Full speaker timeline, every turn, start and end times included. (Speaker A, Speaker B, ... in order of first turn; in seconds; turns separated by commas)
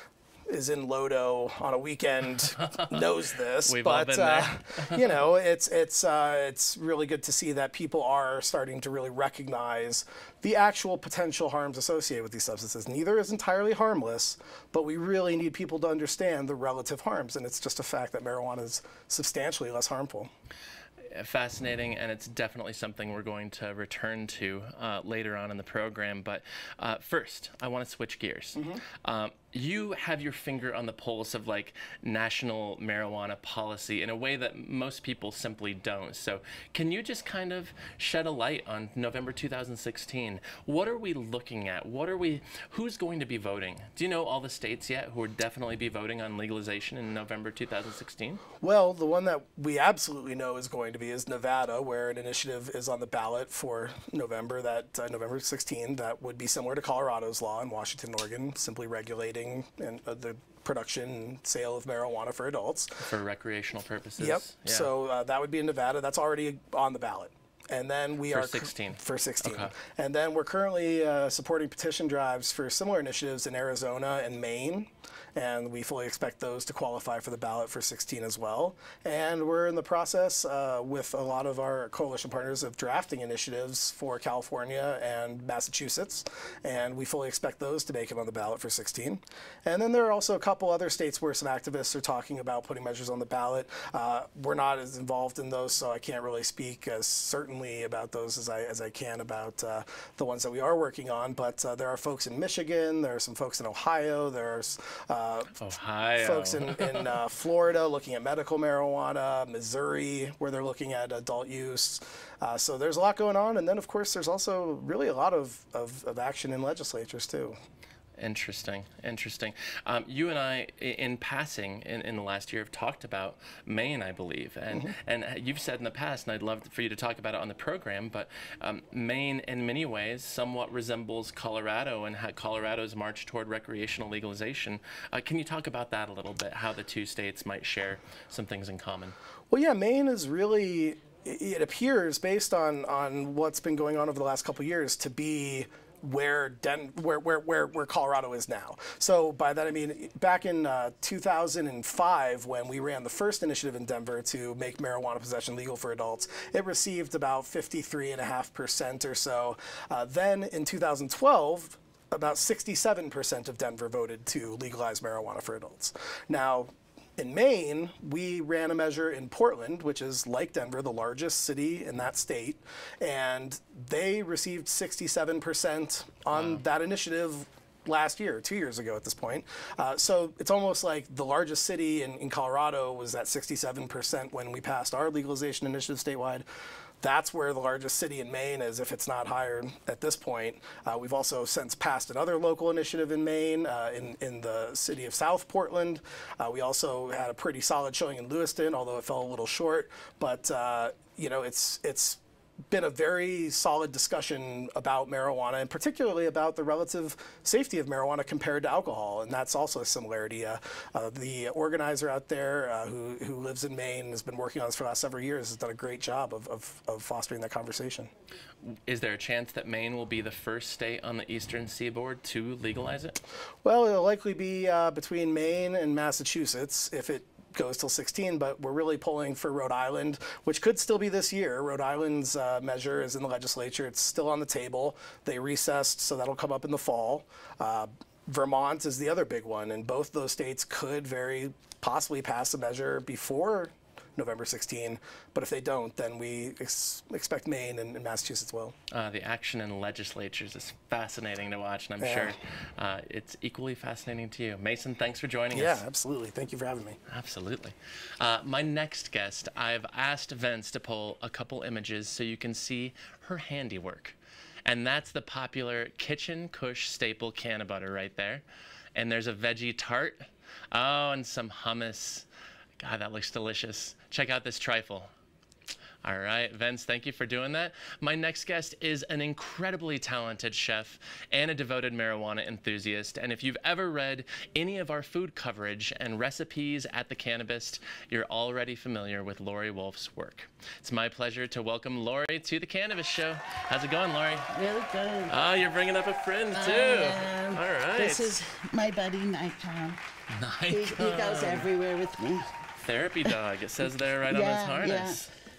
Speaker A: 0.5-20.3, Speaker B: 2.7-3.0, Speaker B: 3.6-5.0, Speaker B: 21.1-48.4, Speaker A: 28.6-28.8, Speaker A: 48.6-63.1, Speaker B: 63.0-64.9, Speaker A: 64.2-105.6, Speaker B: 68.3-69.7, Speaker B: 105.6-107.1, Speaker A: 106.2-117.6, Speaker B: 118.2-139.2, Speaker A: 139.5-186.5, Speaker B: 176.3-176.6, Speaker A: 187.0-218.1, Speaker B: 218.7-223.2, Speaker A: 223.6-248.8, Speaker B: 248.9-255.8, Speaker A: 252.0-252.4, Speaker A: 255.5-257.0, Speaker B: 257.1-268.4, Speaker B: 268.9-272.2, Speaker B: 272.8-275.1, Speaker B: 276.0-294.5, Speaker C: 294.5-295.4, Speaker B: 295.3-298.4, Speaker C: 296.6-300.0, Speaker B: 300.3-301.7, Speaker C: 300.7-302.5, Speaker B: 302.8-305.3, Speaker C: 304.3-305.2